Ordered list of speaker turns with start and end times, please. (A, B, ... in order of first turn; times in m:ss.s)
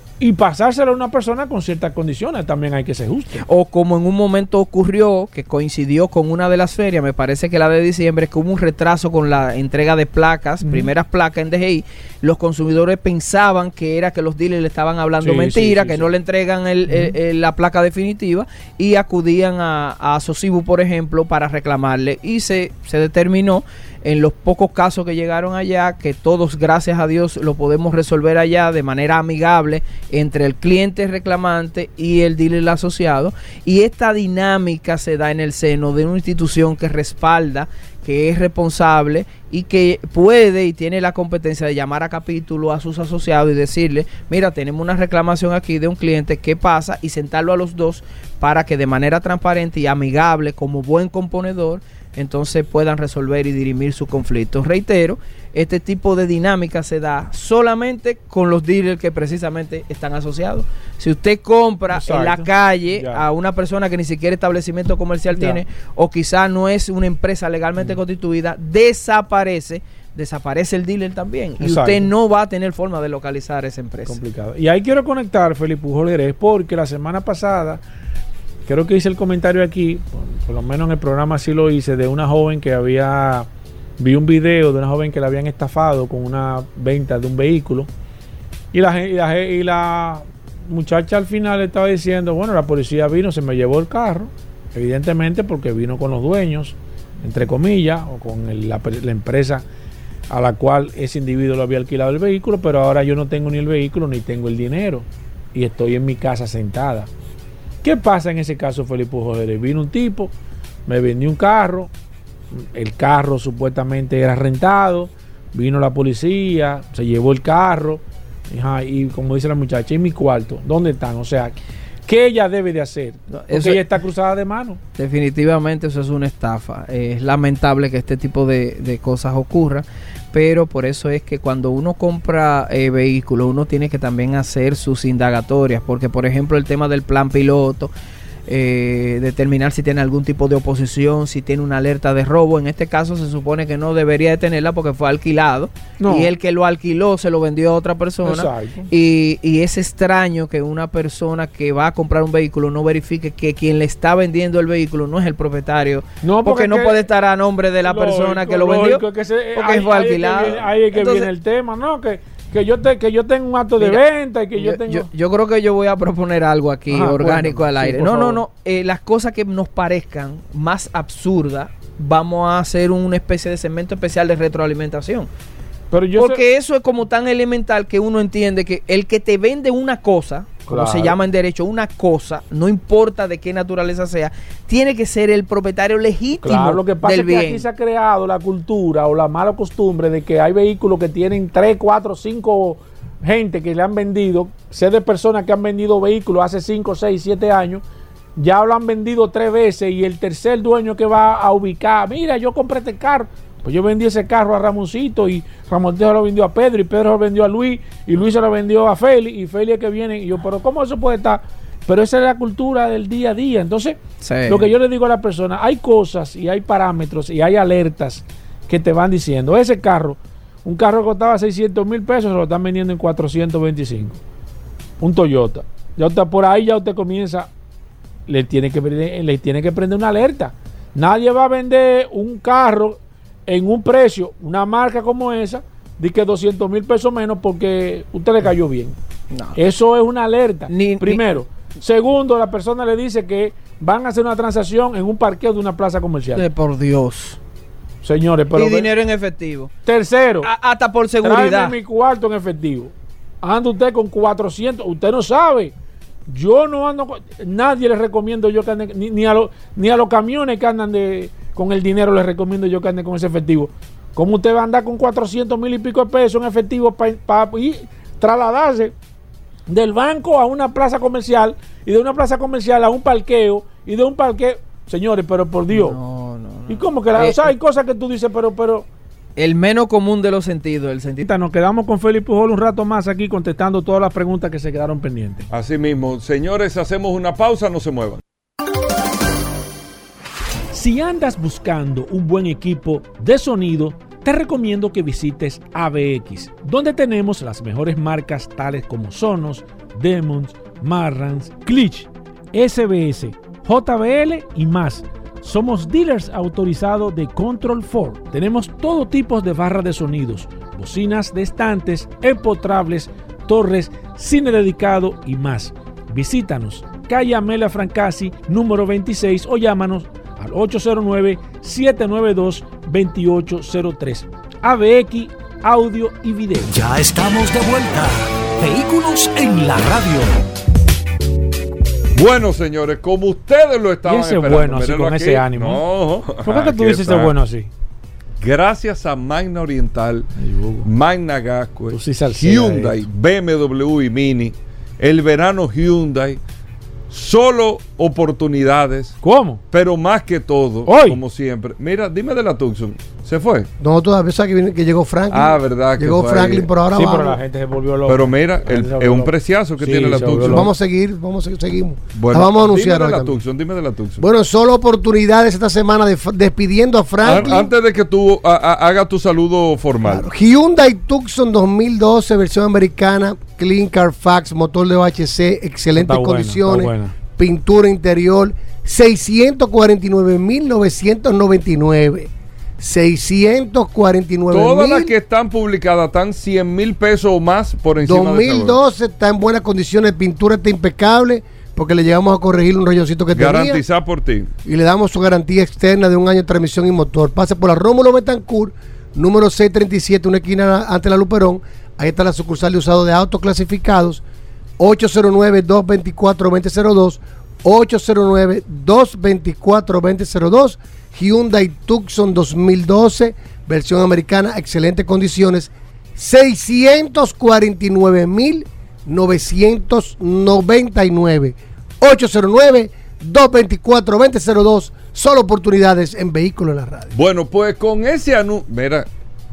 0:00.2-0:03.4 A
0:03.4-1:14.2 B
0:10.6-0:10.9 A
0:15.2-0:16.1 A
0:16.9-0:17.1 A
1:01.9-1:03.2 A
1:05.3-1:05.6 A
1:11.6-1:12.1 A
1:14.0-1:17.8 A
1:18.6-1:23.5 A
1:24.0-1:27.9 A
1:28.7-1:39.6 A
1:40.3-1:47.1 A
1:47.8-1:50.3 A
1:50.9-1:51.9 A
1:52.5-2:04.8 A
2:03.5-2:03.8 B
2:05.0-2:17.9 B
2:18.5-2:39.0 B
2:26.0-2:26.3 A
2:28.2-2:28.9 A
2:36.2-2:37.0 A
2:37.8-2:45.0 A
2:39.6-2:41.3 B
2:44.6-2:55.3 B
2:46.9-2:48.4 A
2:55.9-2:56.4 A
2:56.2-3:07.6 B
3:00.7-3:01.2 A
3:06.4-3:17.8 A
3:18.4-3:44.2 A
3:34.2-3:34.7 B
3:45.0-3:47.5 A
3:48.3-3:59.0 A
3:59.3-3:59.6 B
3:59.5-4:06.4 A
4:00.7-4:01.2 B
4:06.3-4:07.4 B
4:08.0-4:08.9 A
4:08.5-4:09.7 B
4:09.8-4:10.5 A
4:10.4-4:11.7 B
4:11.2-4:15.7 A
4:16.3-4:28.9 A
4:29.7-4:36.0 A
4:35.7-4:37.5 B
4:36.7-4:38.9 A
4:39.4-4:41.3 B
4:41.2-4:45.5 A
4:45.5-4:48.2 C
4:50.7-5:26.8 A
5:26.7-5:30.4 D
5:32.1-5:37.3 C
5:34.0-5:35.8 A
5:36.4-5:37.7 A
5:38.4-5:40.3 C
5:40.4-5:40.9 A
5:40.8-5:46.4 C
5:41.9-5:43.0 A
5:47.1-5:49.2 C
5:49.2-5:49.6 A
5:49.7-5:53.7 C
5:50.9-5:51.2 A
5:53.8-5:57.4 E
5:55.3-5:56.7 C
5:56.9-6:00.7 A
5:58.0-6:00.7 C
6:00.4-6:03.4 E
6:02.2-6:04.2 C
6:04.2-6:07.7 E
6:07.2-6:10.2 C
6:10.0-6:25.1 E
6:16.0-6:17.1 A
6:24.5-6:28.8 C
6:28.0-6:33.8 E
6:33.3-6:34.5 C
6:34.6-6:44.2 E
6:44.8-7:07.1 E
7:07.1-7:09.1 C